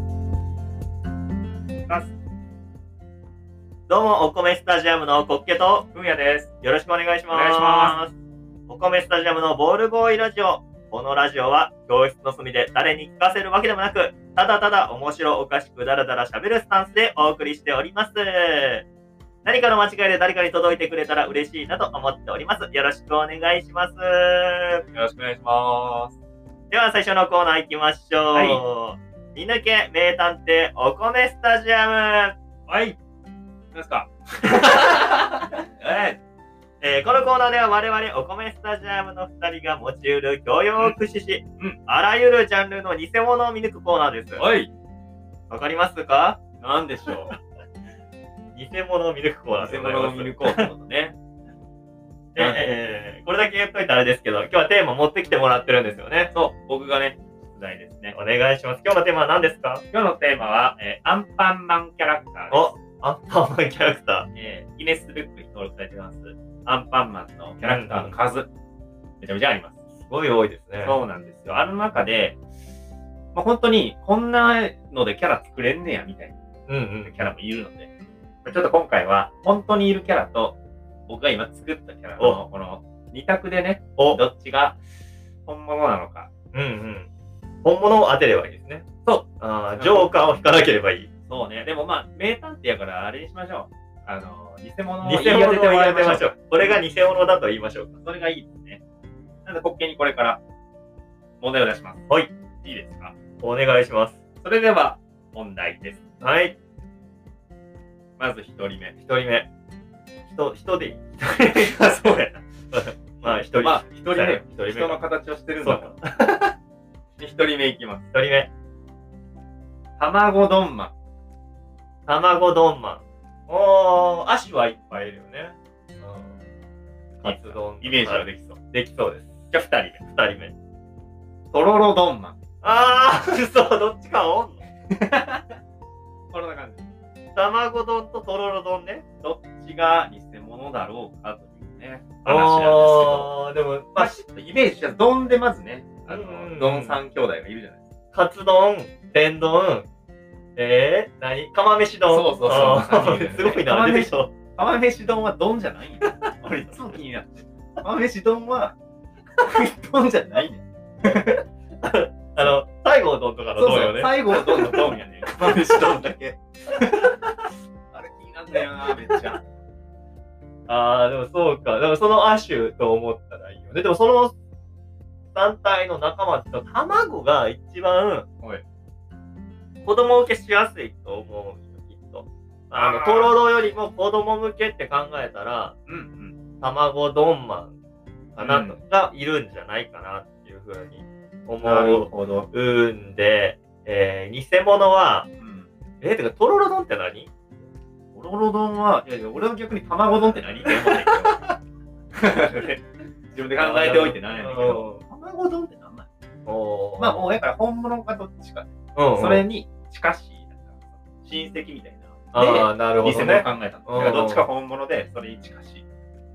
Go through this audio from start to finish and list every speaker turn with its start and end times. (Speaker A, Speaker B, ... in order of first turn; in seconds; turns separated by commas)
Speaker A: 3.9-5.9, Speaker B: 5.9-6.5, Speaker A: 6.6-8.1, Speaker B: 7.3-8.0, Speaker A: 8.7-18.8, Speaker A: 19.4-24.8, Speaker B: 24.9-26.1, Speaker A: 26.7-32.3, Speaker B: 28.3-28.6, Speaker B: 32.7-33.0, Speaker B: 33.7-36.2, Speaker A: 36.8-44.5, Speaker B: 44.4-44.7, Speaker A: 45.5-46.4, Speaker B: 46.6-47.3, Speaker A: 48.5-50.7, Speaker B: 49.5-51.1, Speaker B: 52.4-52.6, Speaker A: 52.4-56.3, Speaker B: 56.3-58.1, Speaker A: 58.1-59.8, Speaker B: 59.9-62.7, Speaker A: 62.5-64.3, Speaker B: 64.3-68.5, Speaker A: 67.6-68.2, Speaker B: 69.2-69.8, Speaker A: 70.0-71.0, Speaker B: 70.8-72.4, Speaker B: 73.3-76.4, Speaker A: 76.7-77.1, Speaker B: 77.0-77.9, Speaker B: 78.4-84.8, Speaker A: 84.0-84.2, Speaker B: 85.5-86.3, Speaker A: 86.5-87.1, Speaker A: 87.6-88.8, Speaker B: 89.0-90.2, Speaker A: 89.4-91.1, Speaker B: 91.3-96.8, Speaker A: 95.0-98.0, Speaker B: 98.0-98.8, Speaker B: 99.4-100.4, Speaker B: 101.4-102.0, Speaker B: 102.6-103.1, Speaker A: 103.4-104.2, Speaker B: 104.4-106.0, Speaker A: 106.2-106.5, Speaker B: 108.2-109.0, Speaker A: 109.0-109.5, Speaker A: 110.3-115.0, Speaker B: 111.5-112.3, Speaker B: 113.2-116.0, Speaker A: 115.6-116.5, Speaker B: 117.2-118.0, Speaker A: 118.1-118.5, Speaker B: 120.0-120.9, Speaker A: 122.1-126.3, Speaker A: 127.2-129.4, Speaker B: 127.2-128.6, Speaker B: 129.5-130.0, Speaker A: 130.1-130.5, Speaker B: 131.5-132.4, Speaker A: 132.6-134.6, Speaker B: 134.9-135.4, Speaker B: 136.3-136.8, Speaker A: 137.3-139.0, Speaker B: 139.2-143.3, Speaker A: 142.2-144.2, Speaker B: 143.9-147.8, Speaker A: 146.1-147.0, Speaker A: 148.1-149.8, Speaker A: 150.6-154.3, Speaker B: 152.1-158.8, Speaker B: 159.4-161.4, Speaker A: 161.0-165.7, Speaker B: 163.6-167.3, Speaker B: 167.9-169.4, Speaker A: 170.7-174.3, Speaker A: 175.3-178.2, Speaker A: 179.8-185.8, Speaker B: 182.7-183.3, Speaker B: 185.9-186.4, Speaker A: 186.6-187.7, Speaker A: 188.3-195.3, Speaker B: 188.4-188.8, Speaker B: 191.6-192.5, Speaker B: 195.4-195.7, Speaker A: 196.0-197.3, Speaker B: 198.1-201.5, Speaker B: 202.1-206.1, Speaker A: 203.6-205.0, Speaker A: 206.4-207.3, Speaker B: 207.0-215.8, Speaker A: 208.9-209.5, Speaker A: 212.3-214.4